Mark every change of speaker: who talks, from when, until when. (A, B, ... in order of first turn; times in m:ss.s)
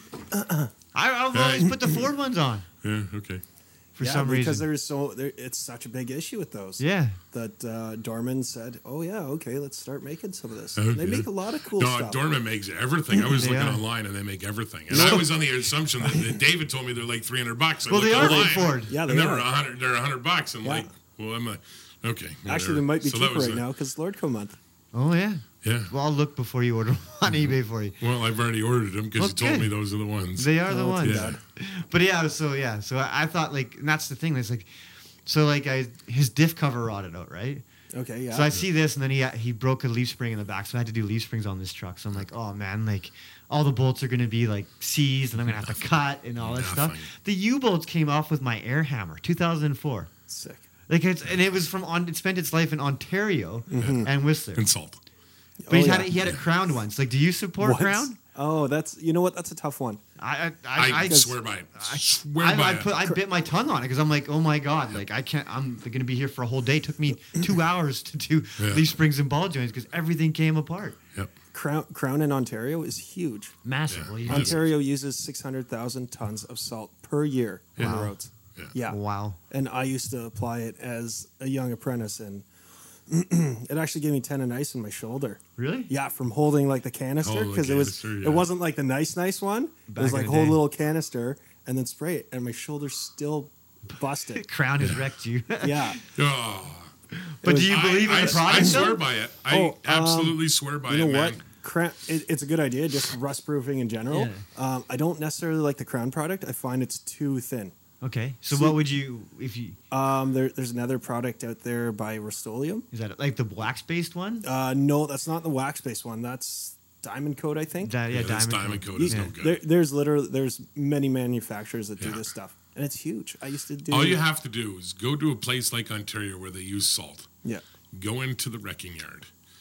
0:00.3-0:00.7 A
0:00.9-0:02.6 B
0:01.3-0:01.9 C
0:02.8-0:03.4 C
0:04.0-0:04.7 B
0:04.0-0:12.2 A
0:06.8-0:07.2 B
0:10.8-0:23.6 C
0:13.3-0:13.8 B
0:14.9-0:15.3 A
0:14.9-0:15.2 B
0:17.9-0:19.0 B
0:18.1-0:19.5 A
0:20.6-0:20.9 A
0:22.4-0:24.6 A
0:24.9-0:28.0 B
0:25.6-0:25.9 C
0:28.0-0:31.4 C
0:29.2-0:29.7 B
0:30.4-0:34.7 B
0:30.7-0:31.4 A
0:35.2-0:37.6 B
0:37.9-0:38.5 A
0:38.3-0:50.1 B
0:45.4-0:45.8 C
0:46.4-0:47.1 C
0:50.3-0:50.6 A
0:50.9-0:54.6 B
0:53.7-0:54.1 A
0:53.8-0:55.0 C
0:55.6-0:56.1 A
0:55.7-0:58.2 B
0:57.6-1:00.0 A
1:00.2-1:11.0 B
1:00.8-1:02.9 C
1:01.0-1:01.3 A
1:08.6-1:09.0 C
1:11.5-1:13.5 A
1:13.6-1:14.7 B
1:13.9-1:14.6 C
1:14.3-1:19.0 A
1:17.8-1:18.7 C
1:17.8-1:18.1 B
1:18.8-1:19.4 B
1:19.5-1:22.4 A
1:23.1-1:34.4 A
1:25.6-1:25.9 B
1:27.2-1:28.4 C
1:29.9-1:30.6 B
1:34.3-1:36.0 B
1:34.8-1:35.1 C
1:35.6-1:36.0 A
1:36.1-1:36.9 C
1:37.1-1:39.0 B
1:37.4-1:39.0 A
1:37.6-1:41.4 C
1:39.5-1:47.7 A
1:44.1-1:44.4 B
1:48.0-1:49.8 B
1:48.5-1:48.8 A
1:49.9-1:52.9 A
1:52.9-1:54.5 B
1:54.4-1:58.0 A
1:57.8-1:59.3 B
1:58.1-1:59.6 C
1:59.0-2:04.2 A
2:03.9-2:07.3 C
2:07.9-2:09.3 C